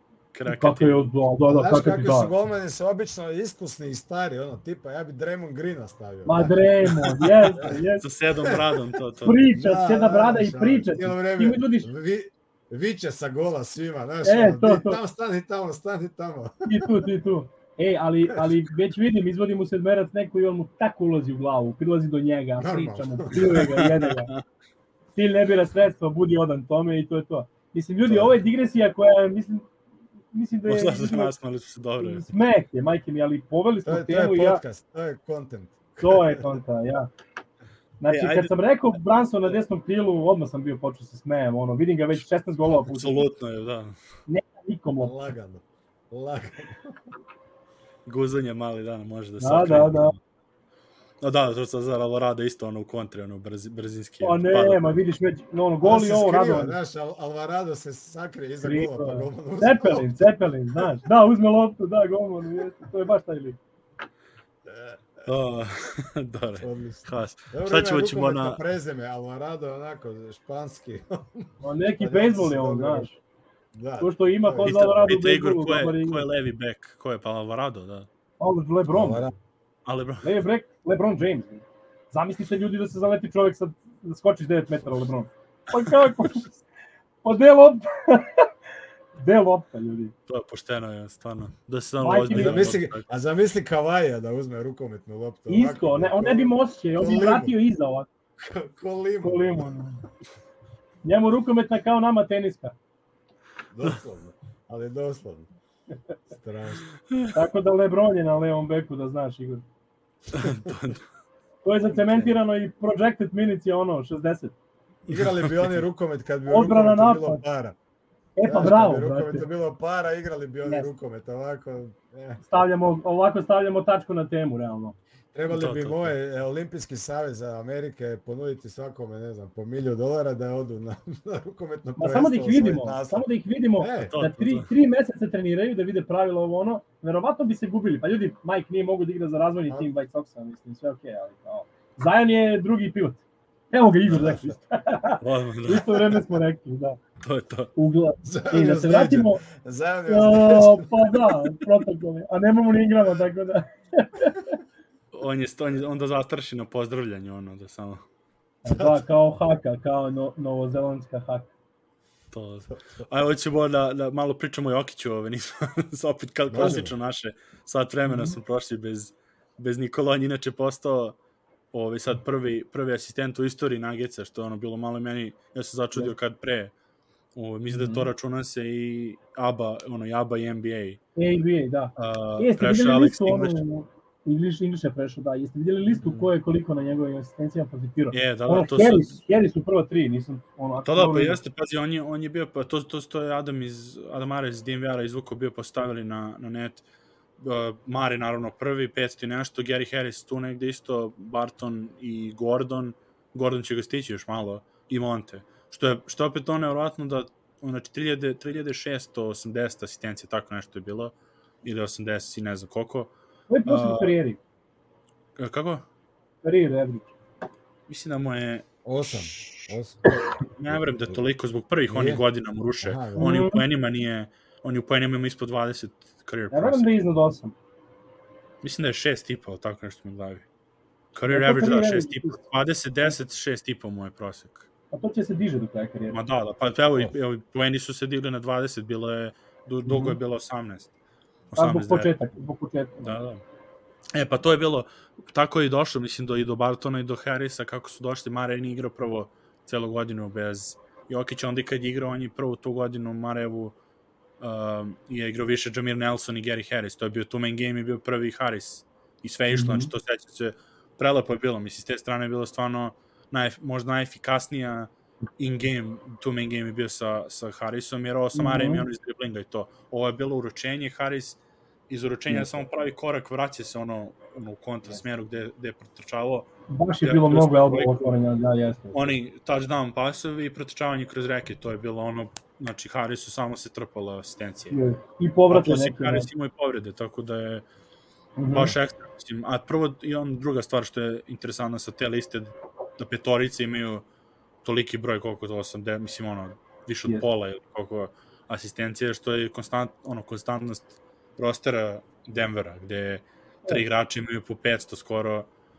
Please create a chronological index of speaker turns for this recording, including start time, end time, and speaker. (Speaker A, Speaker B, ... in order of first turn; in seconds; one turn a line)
Speaker A: 0.3-1.0
Speaker B: 0.5-2.3
Speaker C: 1.4-6.5
Speaker B: 6.2-8.0
Speaker A: 7.0-9.4
Speaker B: 9.2-11.9
Speaker C: 9.5-16.9
Speaker B: 14.2-15.0
Speaker B: 16.6-24.3
Speaker C: 22.6-23.6
Speaker A: 23.5-24.4
Speaker B: 25.1-29.7
Speaker C: 28.0-28.3
Speaker B: 30.3-31.3
Speaker A: 30.7-32.2
Speaker B: 32.0-34.6
Speaker C: 33.8-36.5
Speaker B: 36.0-37.1
Speaker B: 38.0-43.2
Speaker A: 38.1-38.5
Speaker A: 42.9-44.0
Speaker B: 44.3-45.1
Speaker C: 45.0-47.0
Speaker A: 48.0-50.1
Speaker B: 49.4-50.1
Speaker A: 51.2-54.8
Speaker B: 54.2-56.7
Speaker C: 55.8-60.2
Speaker B: 58.6-63.6
Speaker C: 64.6-65.2
Speaker A: 65.2-68.6
Speaker C: 66.6-73.1
Speaker B: 71.6-73.2
Speaker C: 73.7-74.8
Speaker B: 74.0-76.2
Speaker A: 74.6-78.1
Speaker B: 78.4-79.3
Speaker C: 78.9-79.3
Speaker A: 79.8-80.4
Speaker B: 80.2-86.5
Speaker B: 87.2-88.5
Speaker B: 89.2-90.1
Speaker A: 90.3-93.0
Speaker B: 92.0-92.8
Speaker C: 92.3-97.5
Speaker B: 95.5-98.1
Speaker C: 98.4-99.8
Speaker B: 99.2-100.0
Speaker B: 101.0-102.7
Speaker C: 103.7-105.5
Speaker C: 106.3-106.8
Speaker B: 107.3-109.6
Speaker A: 110.3-111.0
Speaker C: 110.4-110.7
Speaker B: 111.6-114.5
Speaker C: 111.9-112.3
Speaker A: 115.1-115.8
Speaker C: 115.1-117.8
Speaker B: 116.5-117.4
Speaker B: 118.3-119.4
Speaker C: 118.4-122.4
Speaker B: 122.5-125.0
Speaker C: 125.3-133.3
Speaker A: 125.5-126.1
Speaker B: 132.0-147.0
Speaker C: 133.8-134.1
Speaker A: 134.0-134.7
Speaker C: 144.1-144.4
Speaker A: 145.2-145.9
Speaker A: 147.2-147.7
Speaker B: 147.8-149.4
Speaker C: 148.2-151.3
Speaker B: 150.1-154.6
Speaker A: 155.1-158.0
Speaker B: 158.6-161.5
Speaker C: 158.7-159.1
Speaker A: 162.3-171.2
Speaker C: 162.7-163.1
Speaker C: 166.5-166.9
Speaker B: 168.1-168.3
Speaker A: 171.7-176.7
Speaker A: 177.3-181.0
Speaker B: 177.7-178.1
Speaker B: 181.2-191.4
Speaker A: 181.9-183.6
Speaker C: 186.0-186.3
Speaker A: 188.1-189.1
Speaker A: 190.8-196.8
Speaker A: 197.4-213.1
Speaker B: 213.5-214.4
Speaker A: 213.7-214.1
Speaker A: 215.4-215.8
Speaker B: 216.4-217.1
Speaker A: 217.9-219.7
Speaker C: 218.8-221.2
Speaker A: 220.5-226.9
Speaker C: 221.9-222.2
Speaker C: 222.8-223.3
Speaker B: 223.2-223.6
Speaker B: 226.5-227.5
Speaker A: 228.6-230.4
Speaker A: 231.1-234.7
Speaker B: 231.3-232.4
Speaker B: 234.9-236.2
Speaker A: 236.1-240.9
Speaker B: 239.8-240.2
Speaker A: 241.5-242.1
Speaker B: 241.6-243.2
Speaker A: 243.0-243.4
Speaker A: 244.1-253.7
Speaker A: 254.4-271.4
Speaker B: 259.5-259.9
Speaker B: 268.4-268.8
Speaker A: 271.9-276.5
Speaker B: 276.7-279.1
Speaker A: 277.0-278.0
Speaker A: 278.9-284.8
Speaker B: 284.7-286.3
Speaker A: 285.5-287.6
Speaker B: 288.4-288.7
Speaker A: 288.5-294.0
Speaker A: 294.6-305.5